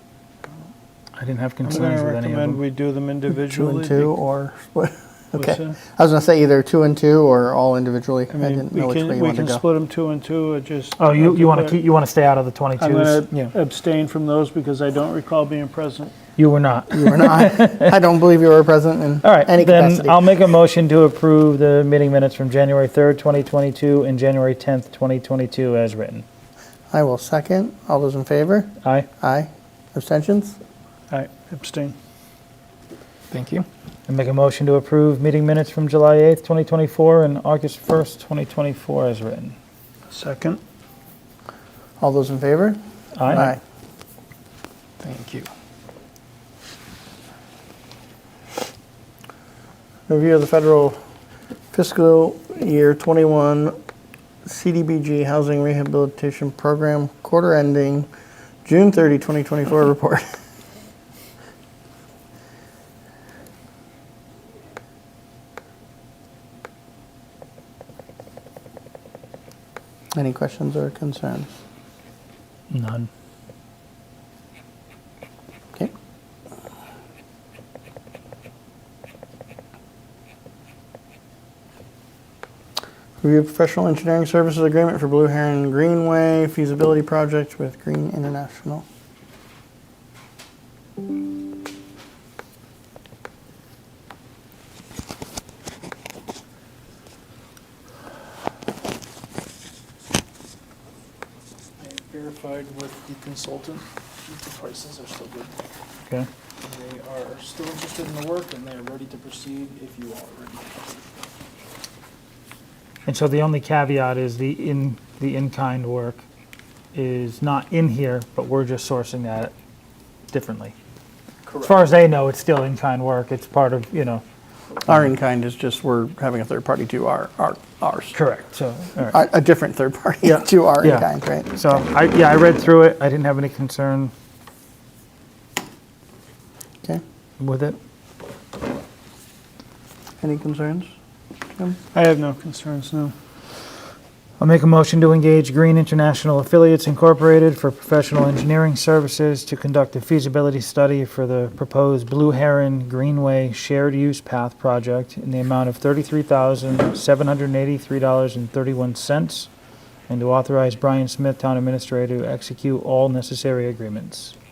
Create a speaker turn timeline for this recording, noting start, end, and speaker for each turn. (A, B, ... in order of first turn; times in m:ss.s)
0:01.1-0:02.6 A
0:01.6-0:04.1 B
0:03.4-0:09.6 C
0:05.4-0:05.8 B
0:08.3-0:11.8 B
0:11.0-0:13.3 A
0:12.8-0:16.1 B
0:16.4-0:18.0 A
0:16.9-0:20.2 C
0:19.2-0:26.2 A
0:26.9-0:30.6 C
0:31.1-0:32.0 B
0:33.3-0:33.7 D
0:34.1-0:39.6 A
0:40.1-0:40.6 B
0:42.0-0:43.6 C
0:43.2-0:43.5 A
0:45.0-0:45.5 D
0:50.1-0:51.0 C
0:51.7-0:53.8 C
0:54.4-0:58.1 C
0:58.6-1:00.3 C
1:10.2-1:11.5 C
1:12.7-1:13.1 A
1:23.2-1:28.8 C
1:41.8-1:45.5 D
1:46.6-1:50.7 D
1:53.1-1:56.2 A
1:56.9-1:59.5 A
2:00.3-2:00.7 A
2:01.5-2:04.2 A
2:04.8-2:08.2 C
2:08.1-2:09.2 A
2:09.1-2:11.5 C
2:10.2-2:14.1 A
2:17.4-2:17.8 A
2:20.2-2:20.9 C
2:21.9-2:23.1 B
2:24.4-2:39.5 A
2:40.1-2:44.4 A